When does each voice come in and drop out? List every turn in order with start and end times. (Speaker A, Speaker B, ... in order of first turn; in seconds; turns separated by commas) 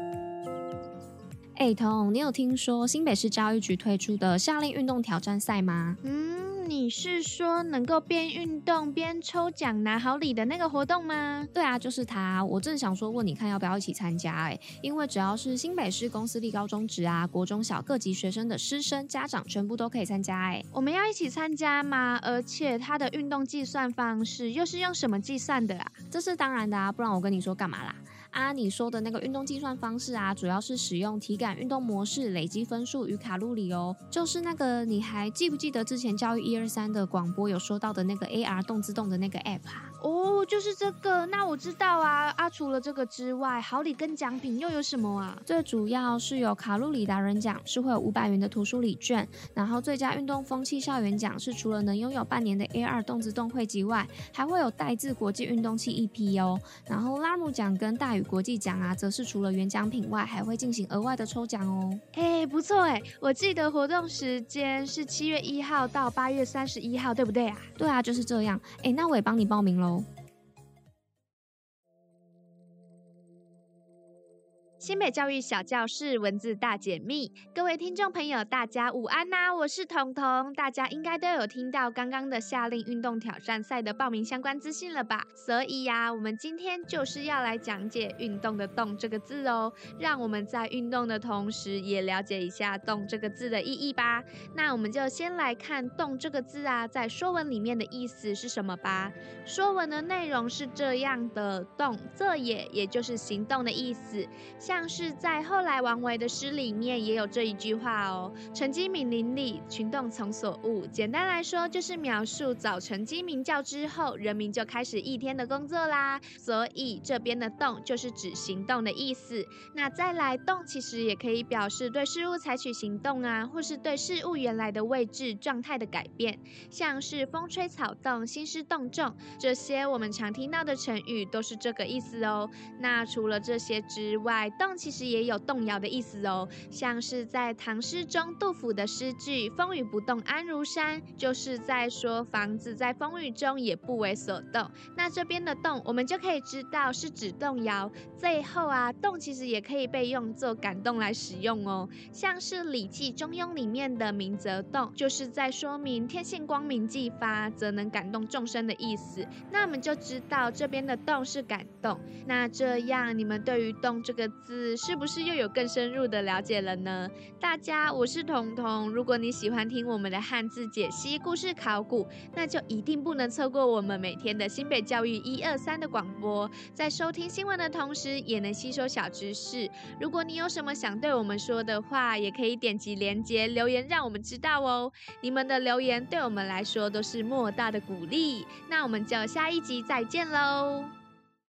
Speaker A: 1.6-6.0, Speaker B: 6.0-11.5, Speaker A: 11.5-20.6, Speaker B: 20.7-25.9, Speaker A: 26.1-39.9, Speaker B: 40.0-45.4, Speaker A: 45.5-62.0, Speaker B: 62.1-67.7, Speaker A: 67.8-70.1, Speaker B: 74.8-190.9